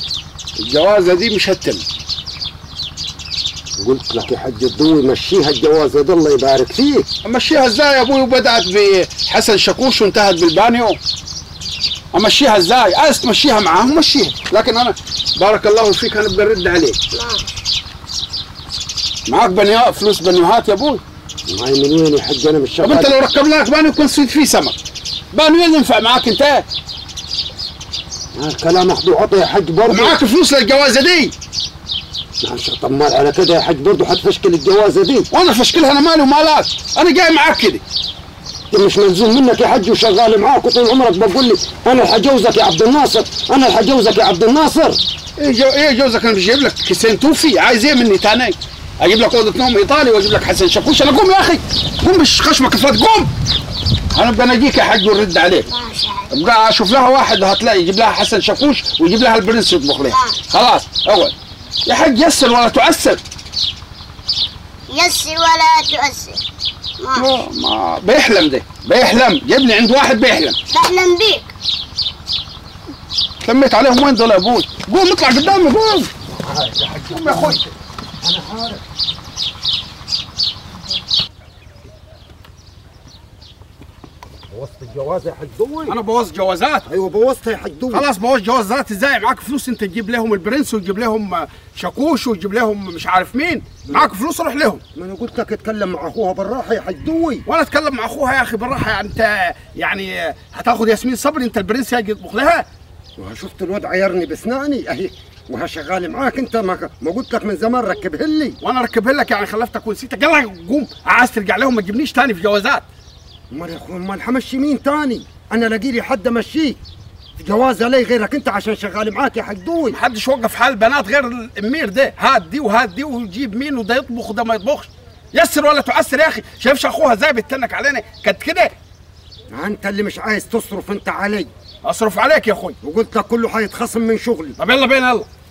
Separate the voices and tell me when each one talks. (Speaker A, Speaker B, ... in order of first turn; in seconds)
Speaker A: 0.6-1.8, 7.2-11.0, 12.1-17.0, 19.3-21.0, 22.8-24.8, 25.3-26.7, 29.9-31.3, 35.3-37.8, 45.4-53.3, 54.1-55.7, 56.3-61.3, 61.9-63.2, 67.2-70.6, 73.4-76.1, 77.1-77.6, 85.9-86.8, 87.9-94.8, 97.5-102.7, 108.6-112.8, 119.9-128.7, 131.8-132.8, 134.6-135.3
Speaker B: 3.8-7.1, 21.5-23.1, 28.4-30.2, 32.4-35.3, 38.7-45.0, 76.3-77.7, 78.2-78.8, 84.5-86.0, 86.9-88.1, 95.0-97.5, 103.2-108.6, 113.5-116.8, 117.4-120.0, 129.5-131.5, 132.8-134.6
Speaker C: 17.1-17.6, 55.7-56.3, 60.1-60.4, 64.9-66.4, 67.0-67.4, 70.7-71.5